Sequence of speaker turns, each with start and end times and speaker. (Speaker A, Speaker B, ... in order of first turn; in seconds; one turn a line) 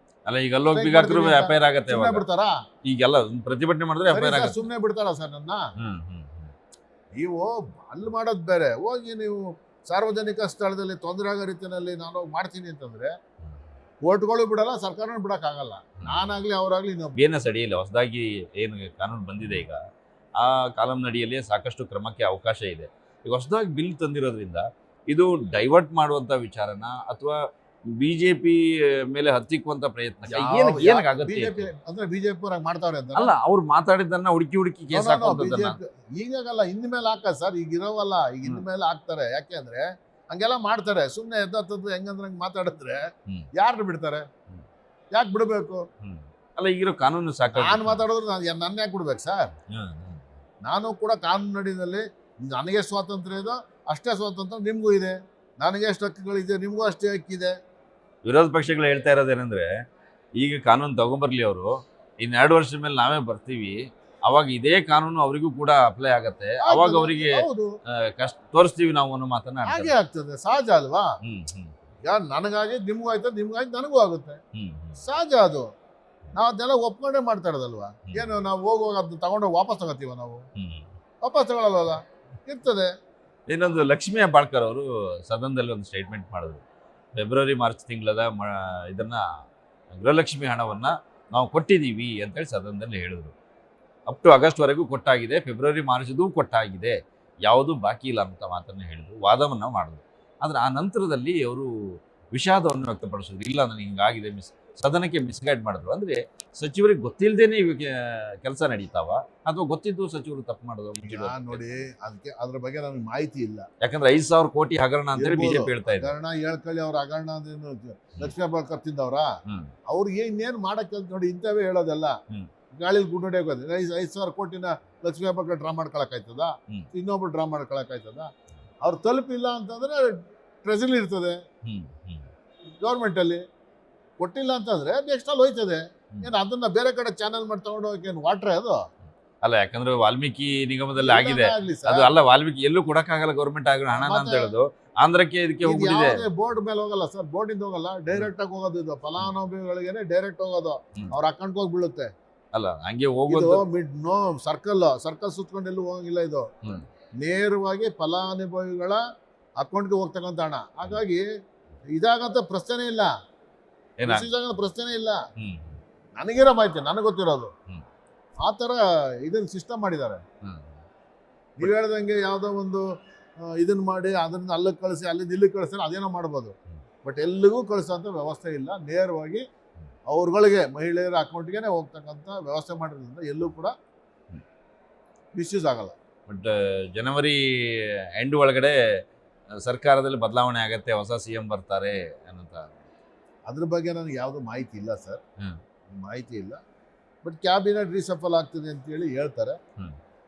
Speaker A: 0.2-2.2
Speaker B: 0.7-2.6
Speaker A: 2.8-4.6
Speaker B: 4.1-5.7
Speaker A: 5.8-6.5
Speaker B: 7.2-13.1
Speaker B: 14.0-17.2
Speaker A: 16.0-16.4
Speaker A: 17.1-19.8
Speaker A: 20.4-31.7
Speaker B: 30.3-33.3
Speaker A: 33.1-35.8
Speaker B: 34.9-43.0
Speaker B: 43.5-44.3
Speaker B: 45.1-45.9
Speaker A: 46.0-48.0
Speaker B: 47.5-49.5
Speaker A: 49.7-50.2
Speaker B: 50.6-57.5
Speaker A: 58.2-59.7
Speaker A: 60.4-69.9
Speaker B: 66.6-67.7
Speaker B: 69.6-71.2
Speaker A: 71.2-71.8
Speaker B: 72.0-74.4
Speaker A: 74.5-75.0
Speaker B: 75.0-75.7
Speaker B: 76.3-80.5
Speaker A: 78.1-78.4
Speaker A: 80.5-80.9
Speaker B: 81.2-82.9
Speaker A: 83.5-86.6
Speaker A: 87.1-93.3
Speaker A: 94.1-111.8
Speaker B: 111.0-113.7
Speaker A: 113.8-116.1
Speaker B: 115.1-119.3
Speaker A: 119.5-119.7
Speaker B: 119.9-122.2
Speaker B: 122.7-128.3
Speaker B: 128.8-131.4
Speaker A: 131.6-132.3
Speaker B: 132.8-133.4
Speaker B: 134.2-138.8
Speaker A: 139.4-146.3
Speaker B: 141.0-142.1
Speaker B: 143.9-144.5
Speaker B: 145.6-152.1
Speaker A: 152.5-153.6
Speaker B: 153.3-156.5
Speaker B: 157.2-159.0
Speaker B: 159.6-161.3
Speaker B: 161.9-163.1
Speaker A: 164.0-164.3
Speaker B: 164.0-165.2
Speaker A: 165.4-165.8
Speaker B: 166.2-167.5
Speaker B: 168.4-170.2
Speaker A: 170.4-170.8
Speaker B: 171.6-172.8
Speaker B: 173.4-179.4
Speaker B: 180.1-183.7
Speaker B: 185.3-185.9
Speaker A: 186.3-189.0
Speaker A: 189.5-192.7
Speaker B: 193.5-195.2
Speaker B: 195.9-196.6
Speaker B: 197.2-199.6